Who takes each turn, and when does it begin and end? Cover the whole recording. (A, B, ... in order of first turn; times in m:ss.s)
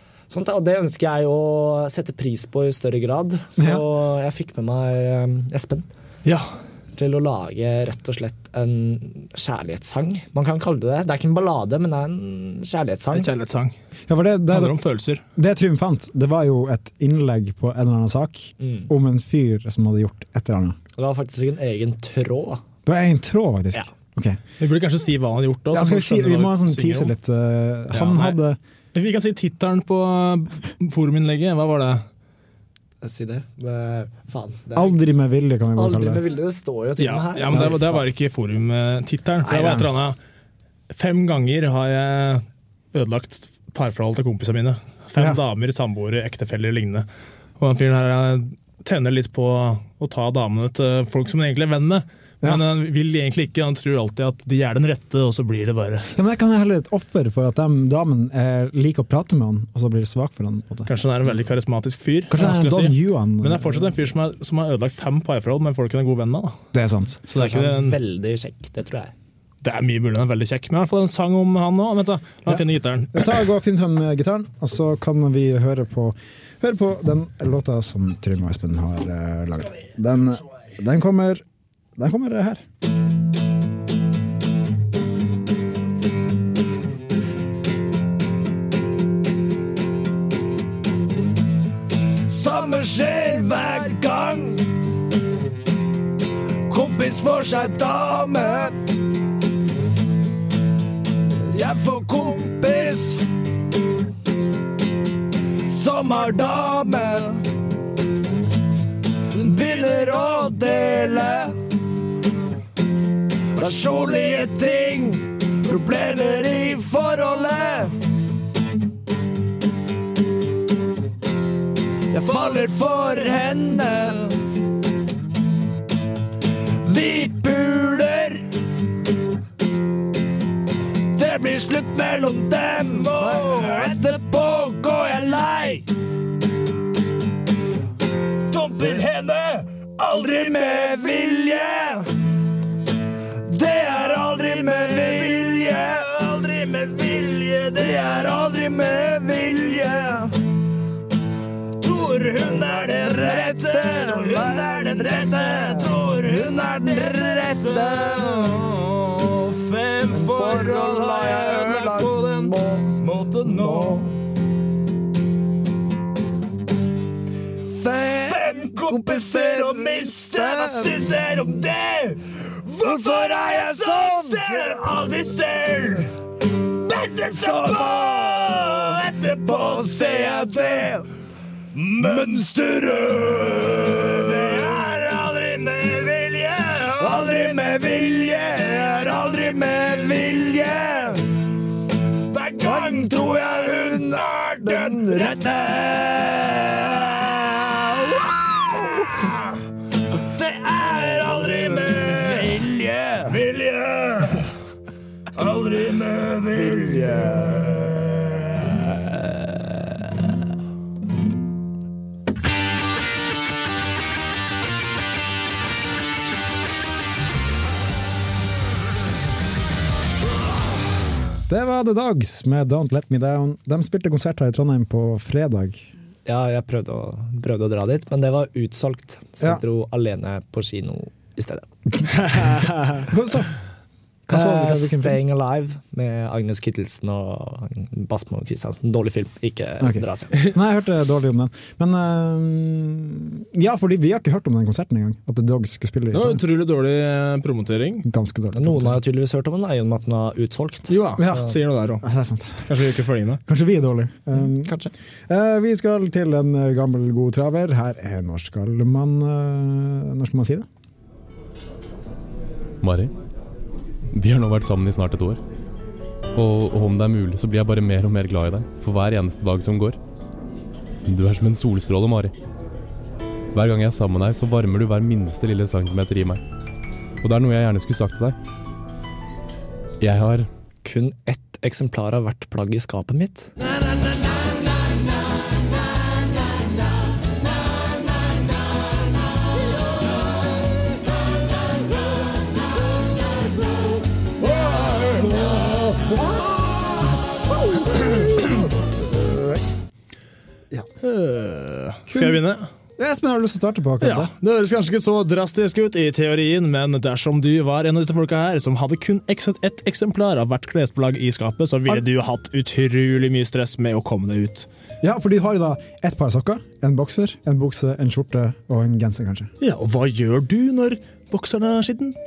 0:00.3-0:05.9 A
0:03.6-0:03.8 B
0:07.0-0:13.3 A
0:13.1-0:13.7 C
0:14.1-0:14.8 B
0:14.5-0:15.2 C
0:15.4-0:20.8 B
0:18.6-0:18.9 A
0:21.0-0:22.6 A
0:22.8-0:24.4 B
0:24.6-0:27.1 C
0:25.7-0:28.6 B
0:27.9-0:28.4 C
0:28.9-0:32.0 C
0:33.0-0:35.0 A
0:34.7-0:36.2 B
0:35.8-0:38.0 A
0:37.0-0:40.2 C
0:39.4-0:39.9 B
0:40.9-0:47.0 C
0:47.6-0:56.1 C
0:56.1-1:00.9 B
1:00.8-1:06.6 C
1:02.3-1:04.0 B
1:06.7-1:07.2 B
1:07.3-1:08.0 C
1:07.3-1:09.1 A
1:09.6-1:13.3 C
1:13.1-1:21.4 B
1:22.0-1:22.6 B
1:32.3-1:34.6 D
1:36.7-1:38.8 D
1:41.5-1:43.2 D
1:45.6-1:47.4 D
1:49.3-1:51.6 D
1:53.6-1:57.9 D
2:02.1-2:04.3 D
2:06.8-2:08.4 D
2:11.1-2:15.8 D
2:18.5-2:22.1 D
2:23.5-2:30.3 D
2:31.8-2:44.1 D
2:33.7-2:35.8 A
2:37.7-2:38.2 A
2:40.1-2:42.9 A
2:43.4-2:44.0 A
2:47.7-2:56.1 D
2:47.9-2:51.0 A
2:56.8-3:01.0 D
3:01.7-3:11.2 D
3:12.3-3:19.4 D
3:12.6-3:12.9 A
3:14.6-3:15.3 A
3:20.3-3:24.4 D
3:25.3-3:28.7 D
3:41.5-3:45.9 B
3:46.2-3:51.7 A
3:53.0-3:53.5 B
3:54.3-3:55.2 B
3:54.3-4:00.4 A
3:59.8-4:06.4 B
4:06.1-4:08.0 C
4:08.0-4:09.0 B
4:08.5-4:10.9 A
4:10.9-4:12.0 C
4:11.2-4:12.7 B
4:12.7-4:13.4 C
4:13.5-4:20.6 B
4:14.6-4:14.9 A
4:22.8-4:23.1 E
4:24.1-4:25.4 E
4:26.3-4:30.0 E
4:31.1-4:32.3 E
4:33.5-4:36.4 E
4:37.2-4:38.4 E
4:40.0-4:40.5 E
4:40.8-4:43.5 A
5:01.0-5:02.7 C
5:02.1-5:02.4 B
5:03.0-5:04.3 B
5:04.0-5:14.7 C
5:15.0-5:19.5 B
5:19.6-5:22.2 C